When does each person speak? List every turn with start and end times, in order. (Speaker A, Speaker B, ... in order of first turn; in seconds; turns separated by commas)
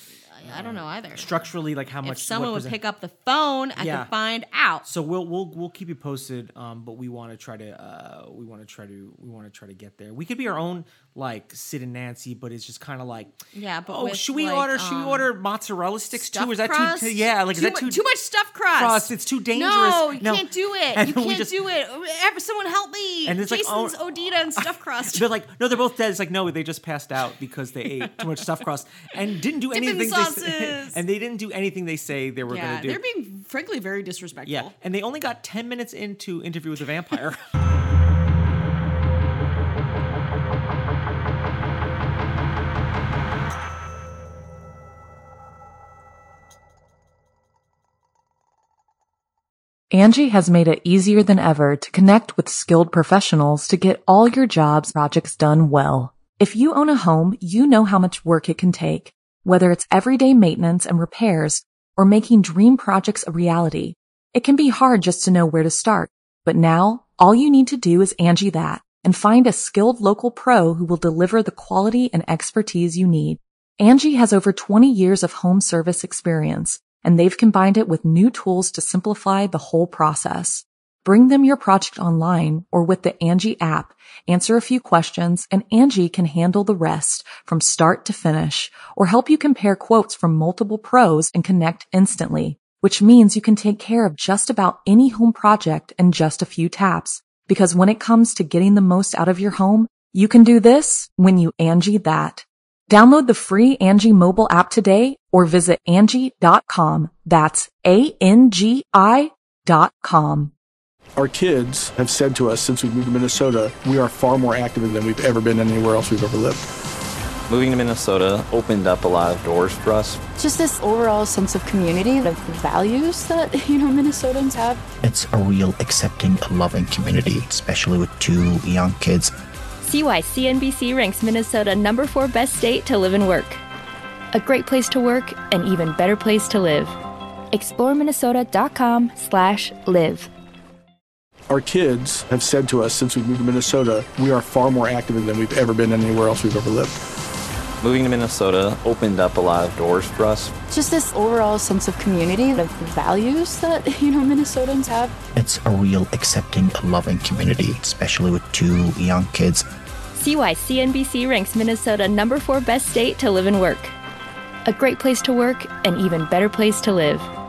Speaker A: 0.3-1.4, Speaker B: 0.4-2.8, Speaker A: 2.0-4.8, Speaker B: 3.8-4.1, Speaker B: 4.8-13.3, Speaker A: 13.5-15.3, Speaker B: 13.9-18.0, Speaker A: 16.1-25.3, Speaker B: 18.7-21.6, Speaker B: 23.2-24.0, Speaker B: 24.6-33.0, Speaker A: 27.8-28.4, Speaker A: 29.1-31.0, Speaker A: 32.5-34.7, Speaker B: 34.5-37.5, Speaker C: 49.9-110.5, Speaker D: 111.2-116.7, Speaker E: 117.5-120.2, Speaker F: 120.4-124.8, Speaker G: 125.0-129.3, Speaker H: 129.8-133.6, Speaker H: 134.3-137.0, Speaker H: 137.5-140.3, Speaker D: 141.5-147.0, Speaker E: 147.8-150.5, Speaker F: 150.7-155.1, Speaker G: 155.3-159.7, Speaker H: 160.1-163.9, Speaker H: 164.7-167.3